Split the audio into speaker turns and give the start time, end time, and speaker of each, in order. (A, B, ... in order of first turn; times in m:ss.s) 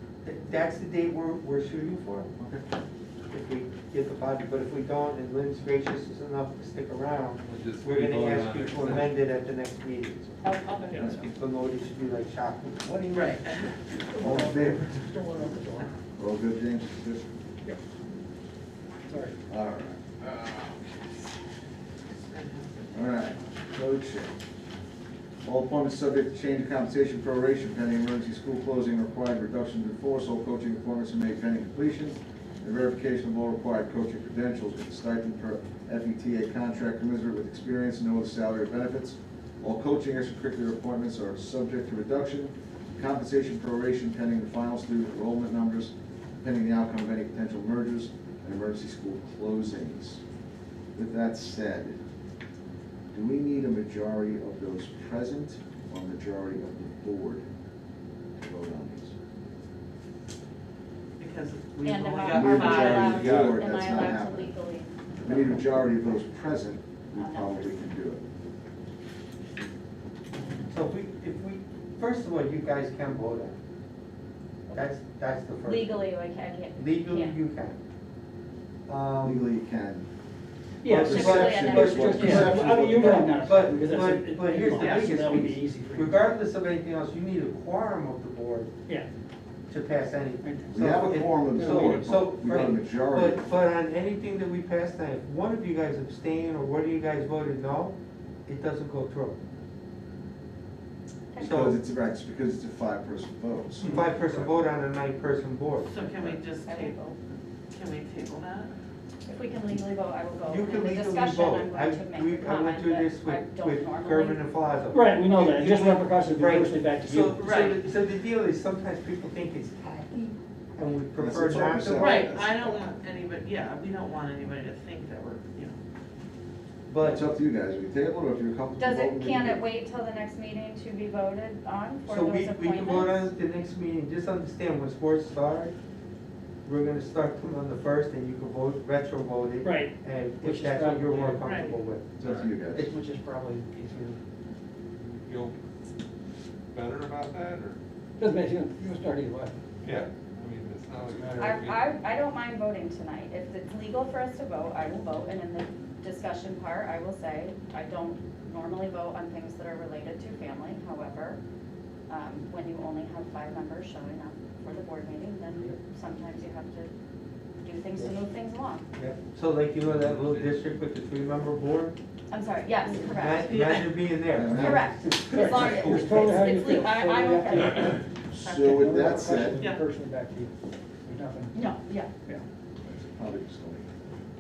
0:00.2-0:02.3 A
0:02.4-0:02.6 B
0:03.3-0:13.5 A
0:07.4-0:09.1 C
0:10.4-0:10.9 D
0:10.6-0:11.0 E
0:10.9-0:11.2 C
0:13.1-0:13.7 E
0:14.2-0:14.9 B
0:14.2-0:14.7 A
0:14.2-0:15.8 F
0:16.2-0:17.2 B
0:19.1-0:19.3 F
0:19.5-0:21.2 B
0:22.0-0:23.4 E
0:22.9-0:24.3 B
0:25.4-0:50.2 B
0:50.9-0:52.0 B
0:53.1-0:57.4 B
0:58.4-0:59.1 B
1:01.2-1:03.3 E
1:01.8-1:05.4 D
1:02.3-1:03.8 C
1:02.3-1:04.5 B
1:05.2-1:08.2 B
1:07.1-1:07.8 D
1:10.7-1:13.6 A
1:14.7-1:16.0 A
1:15.6-1:17.4 D
1:16.8-1:17.8 A
1:18.9-1:19.5 A
1:19.2-1:20.0 B
1:20.8-1:21.2 F
1:20.8-1:28.7 A
1:20.9-1:23.2 B
1:21.0-1:22.5 D
1:21.8-1:26.2 F
1:24.7-1:25.4 E
1:29.7-1:37.9 A
1:30.4-1:30.8 F
1:30.7-1:33.4 B
1:31.5-1:32.1 F
1:38.4-1:39.4 A
1:41.4-1:41.8 A
1:41.4-1:44.0 B
1:43.8-1:45.9 A
1:45.8-1:47.2 E
1:46.1-1:46.4 B
1:46.6-1:47.1 D
1:47.7-1:48.7 E
1:49.2-1:54.4 D
1:50.5-2:02.4 A
1:54.9-1:57.4 F
1:57.4-1:57.8 E
2:01.2-2:02.8 B
2:02.0-2:05.8 E
2:06.9-2:07.4 A
2:07.0-2:09.6 B
2:08.8-2:13.3 D
2:12.1-2:15.7 A
2:16.6-2:22.1 A
2:19.6-2:21.5 F
2:21.4-2:21.8 E
2:22.2-2:22.9 B
2:22.2-2:22.5 C
2:22.9-2:24.2 F
2:25.0-2:25.5 C
2:26.7-2:27.8 C
2:28.2-2:29.5 F
2:29.8-2:31.9 C
2:31.4-2:41.4 D
2:42.1-2:46.9 D
2:47.6-2:48.8 D
2:49.0-2:51.9 A
2:49.8-2:50.5 C
2:52.3-2:53.8 D
2:53.0-2:56.0 A
2:53.4-2:54.0 E
2:54.3-2:54.9 B
2:54.4-2:58.0 D
2:55.2-3:00.5 F
2:58.3-2:59.6 B
2:58.4-2:58.8 E
2:59.3-2:59.8 E
3:01.0-3:01.6 F
3:01.5-3:02.1 D
3:02.9-3:04.0 B